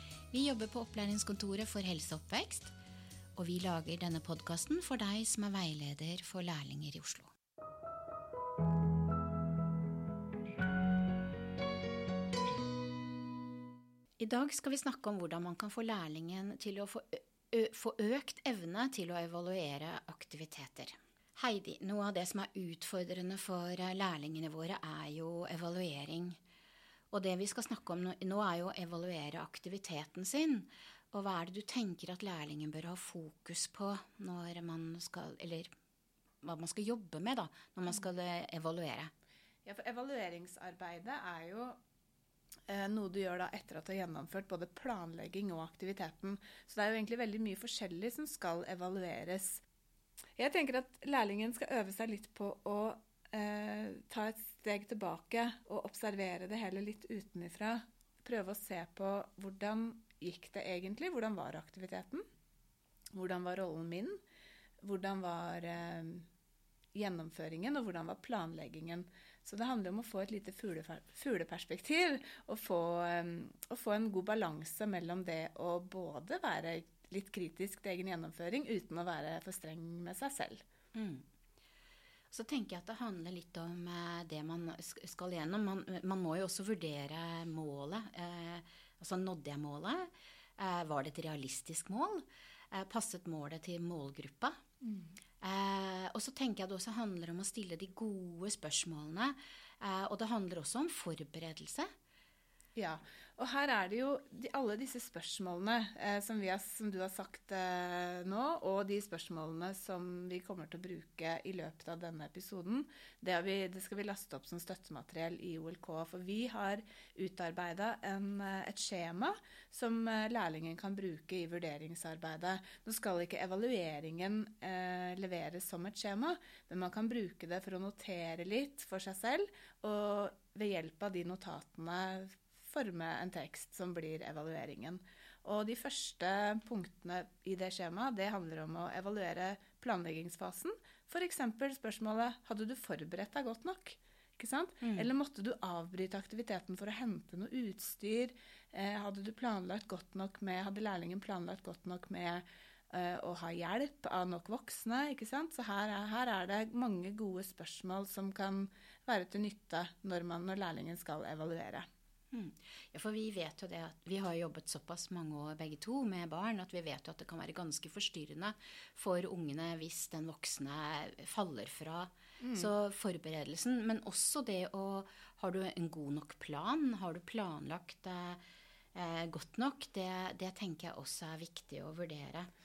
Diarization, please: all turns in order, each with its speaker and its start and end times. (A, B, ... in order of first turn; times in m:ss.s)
0:00.3-0:02.7 A
0:03.4-0:07.3 A
0:14.2-0:26.4 A
0:27.1-0:35.7 A
0:36.4-0:39.1 A
0:39.6-0:41.8 B
0:42.7-0:49.6 B
0:50.4-1:02.2 B
1:03.1-1:04.2 B
1:04.8-1:06.2 B
1:07.0-1:20.6 B
1:21.0-1:21.3 A
1:22.3-1:34.6 A
1:34.8-1:35.1 B
1:35.4-1:41.9 A
1:42.8-2:41.9 B
2:24.8-2:25.1 A
2:42.3-2:58.4 A
2:52.4-2:52.7 B
2:59.0-3:02.5 A